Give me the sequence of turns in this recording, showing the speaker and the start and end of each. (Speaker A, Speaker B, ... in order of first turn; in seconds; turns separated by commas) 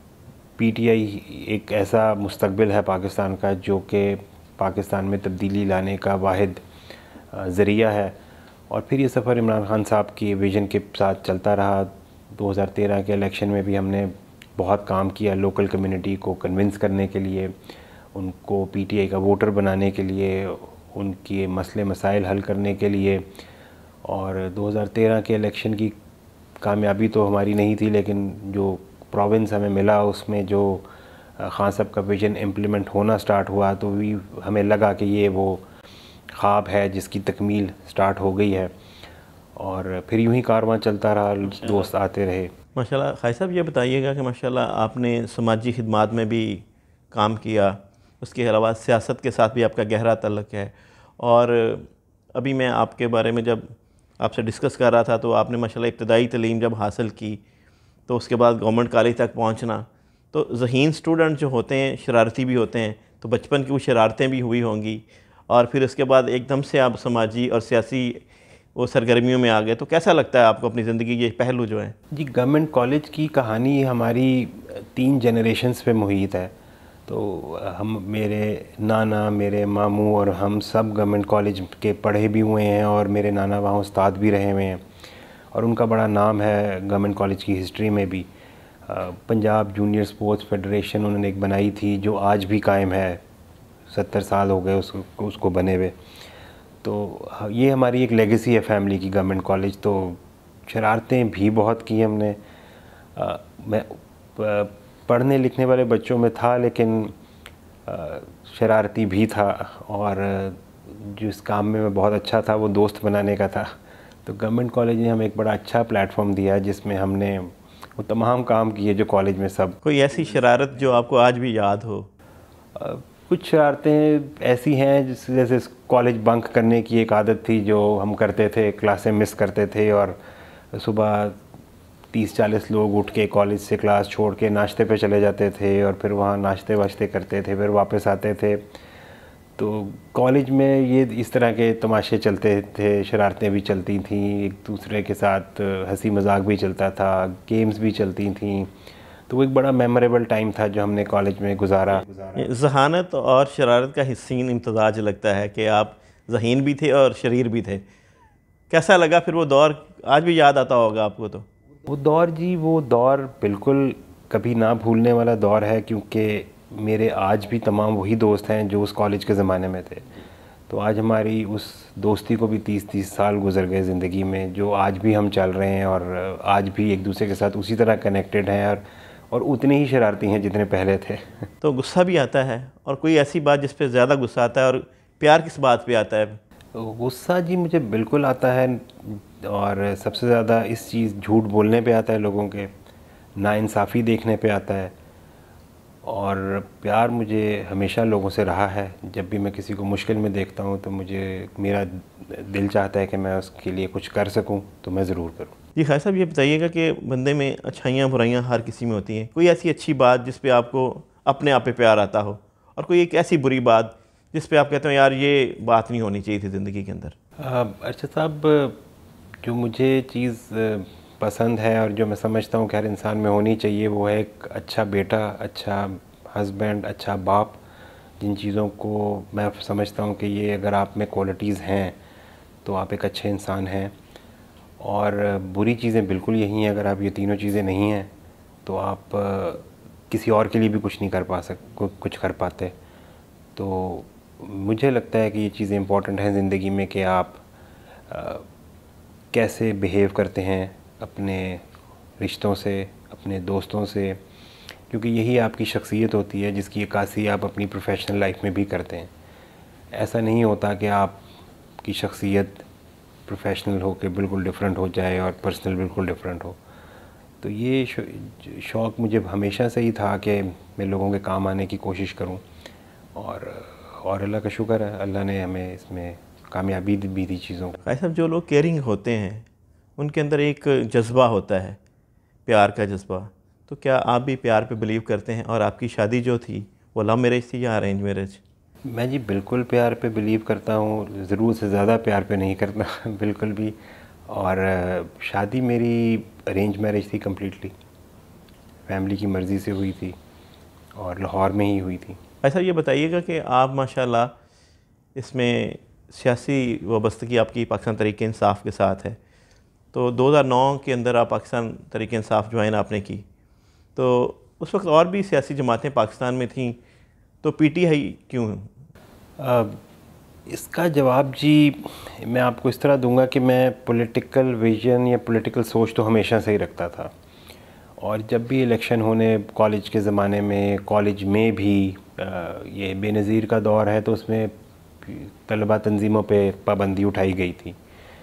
Speaker A: 0.6-6.6, Speaker A: 7.3-8.2, Speaker A: 8.7-17.5, Speaker A: 18.1-23.3, Speaker A: 24.0-25.9, Speaker A: 26.6-35.6, Speaker A: 36.4-38.7, Speaker A: 39.6-42.5, Speaker B: 42.8-53.7, Speaker B: 54.2-57.4, Speaker B: 58.1-72.0, Speaker A: 72.1-76.5, Speaker A: 77.1-84.8, Speaker A: 85.5-88.3, Speaker A: 88.9-93.2, Speaker A: 93.9-96.0, Speaker A: 96.8-102.4, Speaker A: 103.2-107.1, Speaker A: 107.9-113.7, Speaker A: 114.2-119.8, Speaker B: 119.8-122.1, Speaker A: 122.8-130.2, Speaker A: 130.7-131.4, Speaker A: 132.1-138.7, Speaker A: 139.6-148.7, Speaker A: 149.3-152.5, Speaker B: 151.9-157.8, Speaker B: 158.7-161.5, Speaker A: 161.8-170.0, Speaker A: 170.7-181.5, Speaker B: 181.6-186.4, Speaker A: 186.7-192.7, Speaker A: 193.4-194.9, Speaker A: 196.0-205.5, Speaker B: 205.8-217.1, Speaker A: 217.4-218.8, Speaker A: 219.4-227.6, Speaker A: 228.2-232.0, Speaker A: 232.6-233.9, Speaker A: 234.8-238.1, Speaker A: 238.6-242.7, Speaker A: 243.6-247.4, Speaker A: 248.1-248.4, Speaker A: 249.3-251.6, Speaker A: 252.2-254.2, Speaker A: 254.9-259.1, Speaker A: 259.9-261.2, Speaker A: 261.8-262.6, Speaker A: 263.3-266.6, Speaker A: 267.4-272.4, Speaker A: 273.1-277.8, Speaker B: 277.9-281.8, Speaker B: 282.4-288.4, Speaker A: 288.9-293.8, Speaker A: 294.3-297.7, Speaker A: 298.9-300.1, Speaker A: 300.9-302.2, Speaker B: 302.4-304.3, Speaker B: 305.1-309.2, Speaker B: 309.9-313.2, Speaker B: 313.9-316.8, Speaker B: 317.4-318.7, Speaker A: 319.4-319.8, Speaker A: 320.5-327.1, Speaker A: 328.0-337.8